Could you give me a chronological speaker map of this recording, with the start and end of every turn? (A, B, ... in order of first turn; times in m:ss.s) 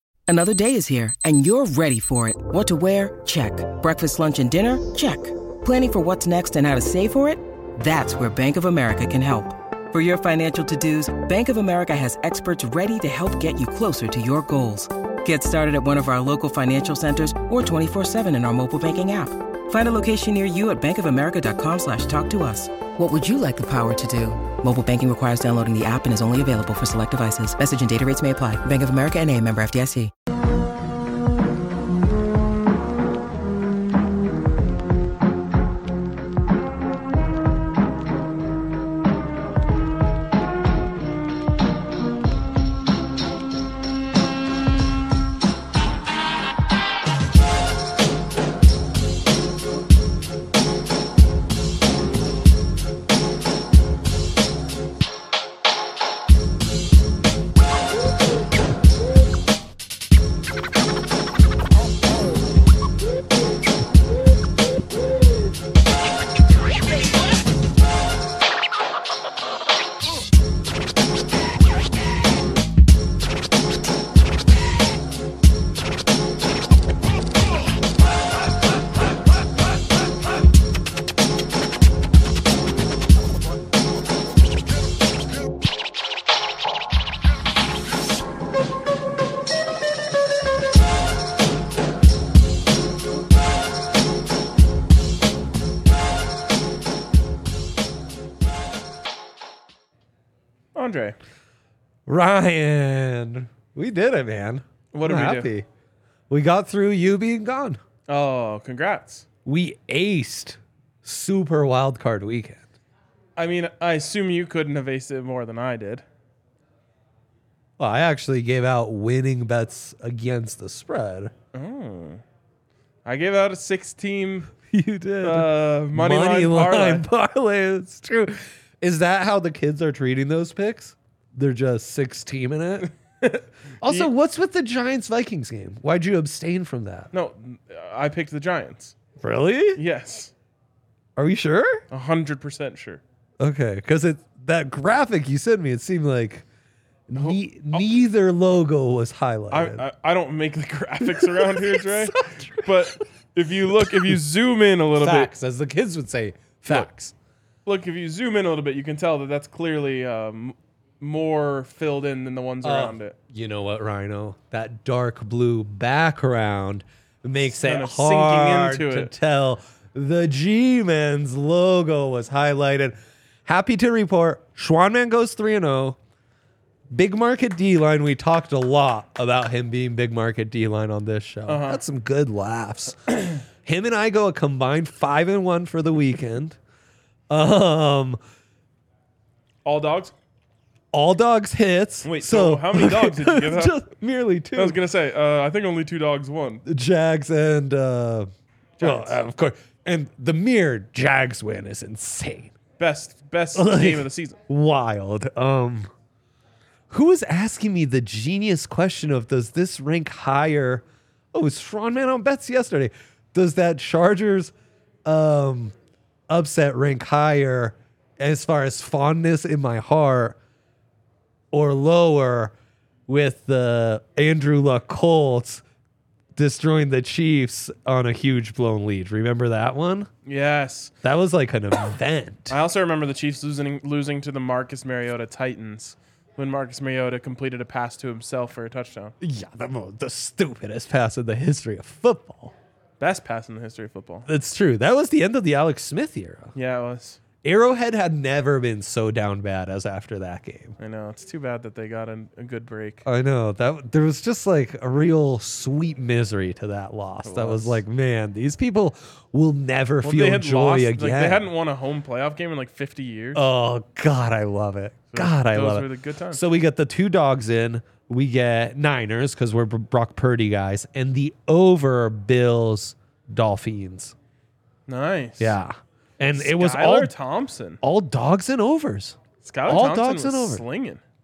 0:00.3-0:30.1 A
1:40.8-1:41.2 B
1:42.1-1:45.7 C
1:44.9-1:45.5 B
1:46.3-1:47.8 C
1:48.1-1:49.2 B
1:49.4-1:52.7 C
1:53.4-1:56.0 B
1:57.8-2:01.3 C
2:01.5-2:02.2 B
2:03.0-2:04.5 B
2:04.6-2:12.9 C
2:05.2-2:07.0 B
2:13.2-2:14.1 B
2:13.8-2:17.1 C
2:17.1-2:18.9 B
2:19.2-2:19.8 C
2:19.8-2:20.3 B
2:21.2-2:21.8 C
2:21.9-2:23.0 B
2:23.4-2:26.5 C
2:27.1-2:29.8 C
2:27.2-2:27.8 B
2:29.5-2:35.3 B
2:31.0-2:32.9 C
2:33.8-2:34.2 C
2:34.9-2:37.1 C
2:37.7-2:43.2 B
2:42.6-2:56.0 C
2:47.5-2:49.1 B
2:56.9-3:03.1 C
3:01.5-3:01.8 B
3:03.6-3:06.6 C
3:07.3-3:08.2 C
3:09.6-3:10.1 B
3:10.9-3:14.8 C
3:12.0-3:13.8 B
3:14.5-3:16.6 B
3:16.6-3:18.3 C
3:18.8-3:19.2 B
3:18.8-3:22.5 C
3:22.8-3:24.4 B
3:23.5-3:25.9 C
3:26.9-3:34.5 C
3:35.1-3:35.8 C
3:36.3-3:40.4 C
3:41.5-3:42.5 C
3:43.1-3:45.6 C
3:46.4-3:50.1 C
3:50.3-3:50.9 B
3:51.0-3:52.6 C
3:52.5-3:59.1 B
3:59.2-4:02.5 C
4:03.0-4:04.3 B
4:04.3-4:06.5 C
4:06.5-4:07.2 B
4:07.4-4:10.8 C
4:10.8-4:13.0 B
4:13.0-4:21.5 C
4:17.2-4:17.8 B
4:20.0-4:23.5 B
4:23.4-4:34.1 C
4:25.1-4:26.4 B
4:34.9-4:35.6 B
4:35.4-4:37.1 C
4:36.3-4:37.8 B
4:37.8-4:40.6 C
4:39.4-4:41.0 B